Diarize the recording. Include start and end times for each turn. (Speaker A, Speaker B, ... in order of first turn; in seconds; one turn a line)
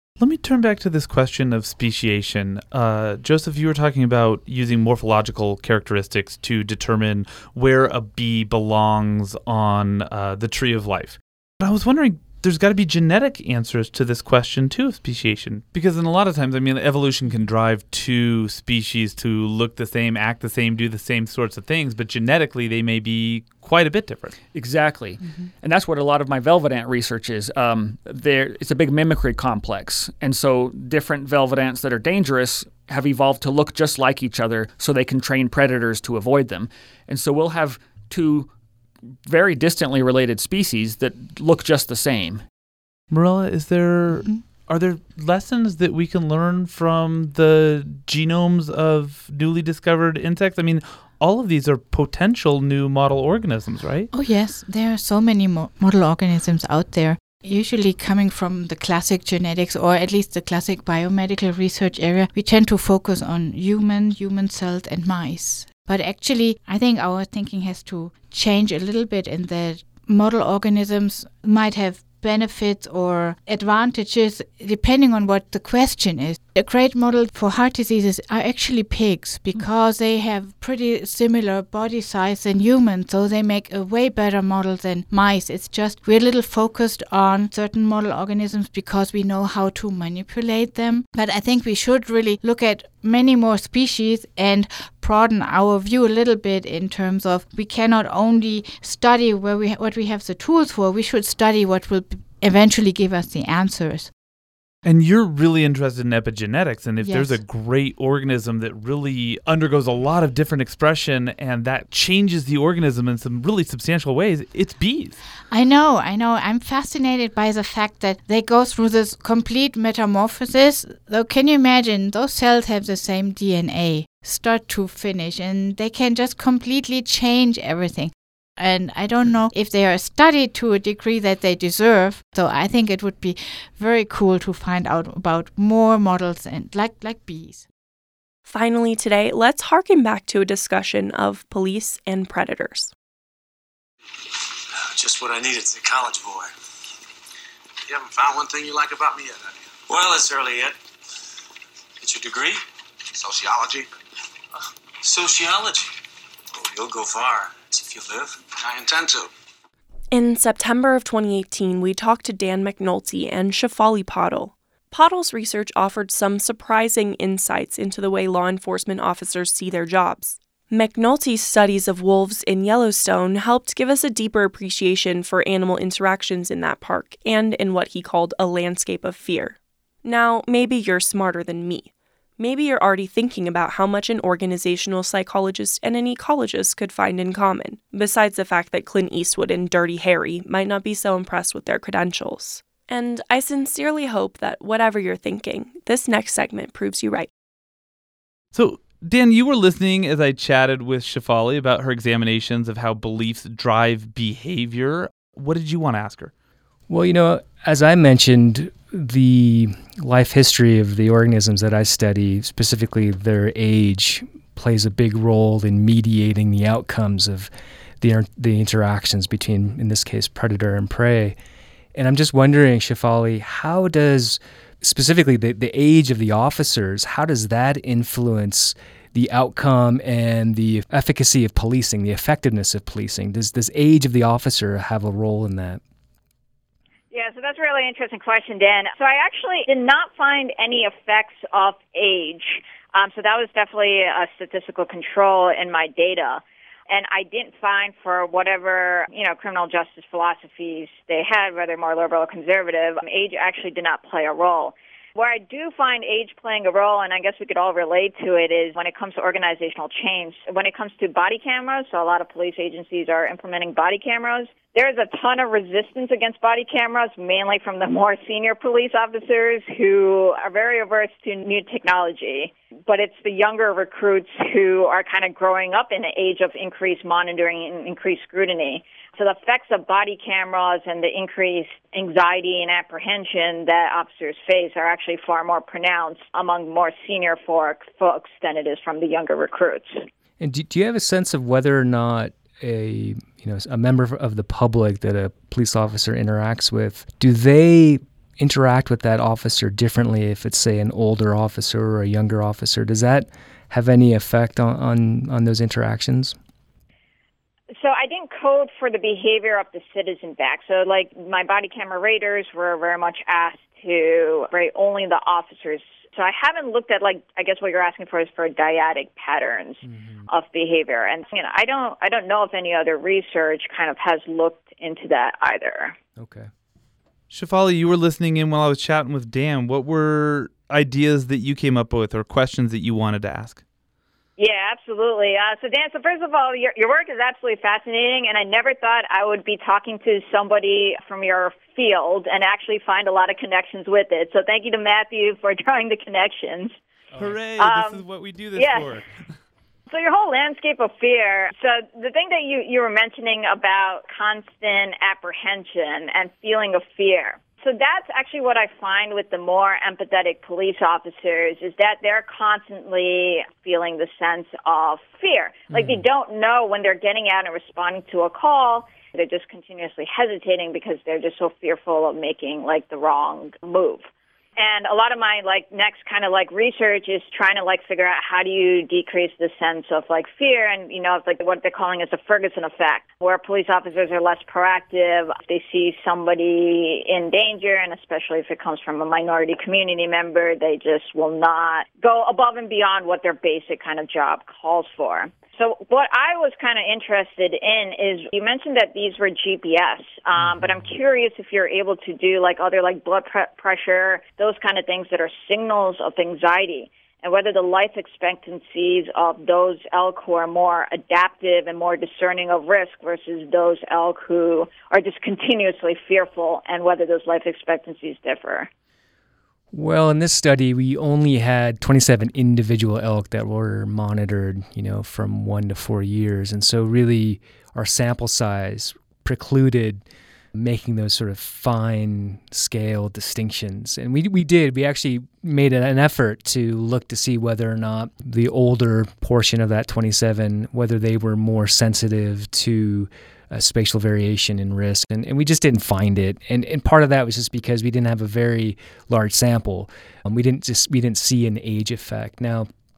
Speaker A: 0.2-24.4
Speaker B: 24.5-38.5
Speaker C: 25.2-25.5
Speaker B: 39.3-42.4
Speaker A: 43.1-54.1
Speaker C: 54.1-104.1
Speaker A: 104.8-115.2
Speaker C: 107.0-107.4
Speaker C: 115.5-137.7
Speaker D: 138.5-142.9
Speaker E: 144.7-146.5
Speaker E: 147.9-150.8
Speaker E: 152.0-152.6
Speaker E: 153.1-153.9
Speaker E: 155.0-155.9
Speaker E: 156.5-159.3
Speaker D: 160.1-197.3
Speaker A: 198.5-206.3
Speaker F: 206.9-217.5
Speaker F: 218.0-221.4
Speaker F: 221.9-235.8
Speaker G: 237.1-290.0
Speaker F: 290.4-306.4
Speaker G: 307.8-326.0
Speaker F: 319.8-320.3
Speaker F: 326.2-326.5
Speaker A: 327.3-333.6
Speaker G: 334.4-346.8
Speaker A: 347.2-349.1
Speaker G: 347.6-349.0
Speaker G: 349.9-374.1
Speaker G: 374.6-418.7
Speaker F: 419.7-430.0
Speaker F: 430.6-452.7